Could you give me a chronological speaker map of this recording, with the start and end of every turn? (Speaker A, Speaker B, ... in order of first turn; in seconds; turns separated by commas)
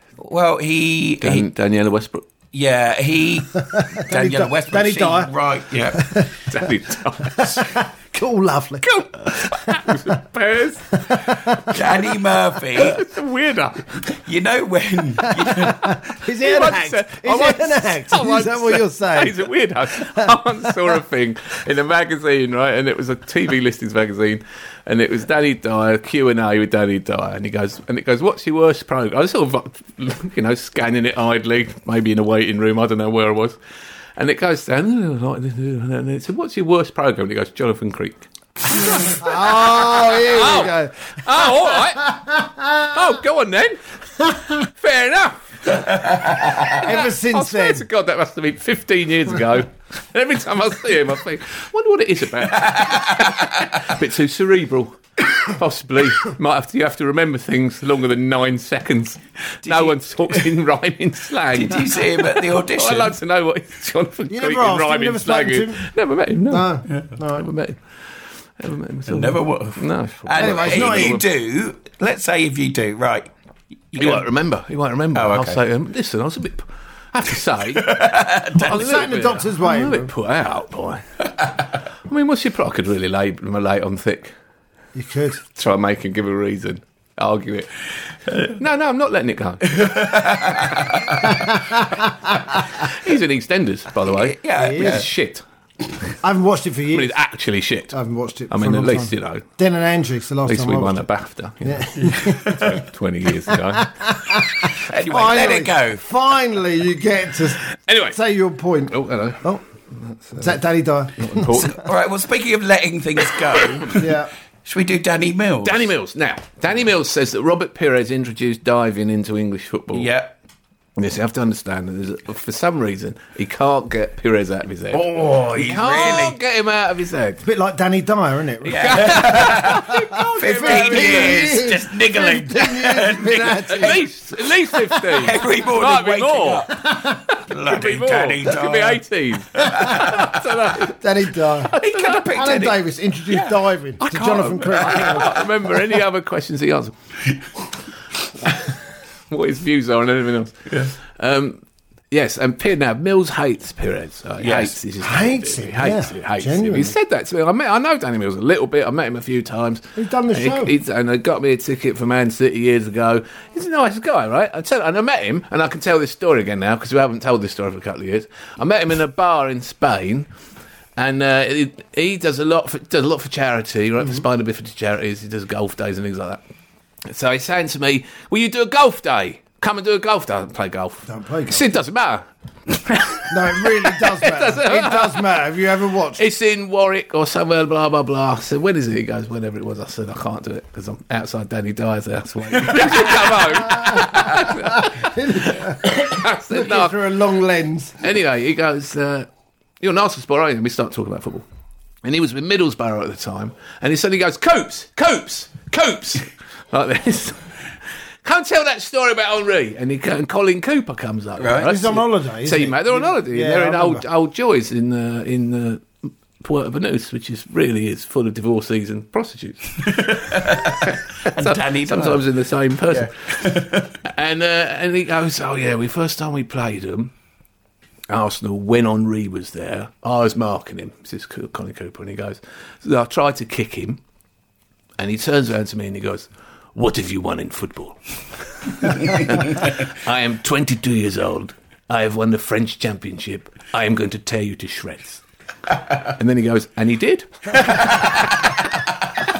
Speaker A: 0.2-1.5, Speaker B: 1.2-2.2, Speaker A: 2.5-6.1, Speaker C: 3.7-5.3, Speaker C: 5.9-6.6, Speaker B: 6.5-7.7, Speaker C: 7.2-10.1, Speaker B: 8.8-11.3, Speaker C: 11.0-11.8, Speaker A: 11.7-13.0, Speaker B: 12.7-14.0, Speaker A: 14.1-16.0, Speaker C: 15.3-19.4, Speaker B: 16.4-33.5, Speaker C: 20.0-20.9, Speaker B: 34.2-42.1, Speaker C: 38.8-43.0, Speaker B: 42.8-43.8, Speaker B: 44.6-45.7, Speaker A: 45.7-46.8, Speaker B: 46.7-67.8, Speaker C: 46.8-47.8, Speaker A: 52.5-53.7, Speaker A: 59.6-60.4, Speaker A: 61.5-63.2, Speaker C: 64.3-65.8, Speaker C: 66.5-67.5, Speaker B: 68.6-71.2, Speaker A: 69.1-73.3, Speaker C: 70.3-71.2, Speaker A: 73.9-74.2, Speaker B: 74.0-78.0, Speaker A: 75.1-75.6, Speaker A: 77.7-79.1, Speaker B: 78.5-81.0, Speaker C: 78.6-80.1, Speaker B: 82.1-84.3, Speaker C: 84.9-85.4, Speaker B: 85.5-87.8, Speaker B: 88.4-89.8, Speaker A: 89.7-91.3, Speaker C: 91.3-92.4, Speaker B: 92.8-95.4, Speaker A: 94.0-95.1, Speaker C: 94.6-95.1, Speaker C: 96.2-97.1, Speaker B: 96.9-98.0, Speaker C: 97.9-101.0, Speaker B: 98.5-99.4, Speaker B: 100.5-103.9, Speaker C: 101.6-102.8, Speaker A: 102.0-102.8, Speaker C: 103.5-109.6, Speaker A: 104.7-106.0, Speaker B: 107.9-108.2, Speaker B: 108.9-109.5, Speaker B: 110.1-110.6, Speaker C: 110.3-111.6, Speaker B: 111.2-111.8, Speaker A: 111.5-114.1, Speaker B: 113.5-113.9, Speaker C: 113.9-114.3, Speaker A: 114.6-115.9, Speaker B: 115.6-120.1, Speaker A: 119.9-120.3, Speaker B: 121.0-127.4, Speaker A: 124.9-126.4, Speaker C: 127.4-134.0, Speaker A: 128.6-134.0, Speaker B: 128.7-131.6, Speaker B: 133.7-136.8, Speaker C: 134.7-135.3, Speaker A: 135.1-136.9, Speaker C: 136.7-137.2, Speaker A: 137.4-139.0, Speaker B: 137.6-140.9, Speaker A: 139.5-140.6, Speaker C: 139.6-140.0, Speaker C: 140.9-141.8, Speaker B: 141.7-142.4, Speaker A: 141.8-142.8, Speaker C: 142.3-145.8, Speaker A: 143.3-143.6, Speaker B: 144.0-146.9, Speaker A: 144.1-145.3, Speaker B: 149.3-151.6, Speaker B: 152.1-170.3, Speaker A: 154.4-154.8, Speaker C: 155.0-156.9, Speaker C: 159.9-160.7, Speaker B: 171.0-176.4, Speaker B: 177.1-185.3, Speaker C: 181.1-181.7, Speaker C: 183.3-186.2, Speaker B: 186.2-196.9, Speaker C: 193.5-198.0, Speaker B: 198.0-199.3, Speaker B: 199.8-201.4, Speaker B: 202.0-207.4, Speaker B: 208.2-223.1, Speaker A: 211.4-211.8, Speaker C: 211.6-214.0, Speaker A: 219.8-222.2, Speaker A: 222.9-223.9, Speaker B: 224.0-227.1, Speaker B: 228.1-234.0, Speaker B: 235.0-238.0, Speaker B: 238.6-245.2, Speaker B: 246.0-248.5, Speaker A: 247.6-248.6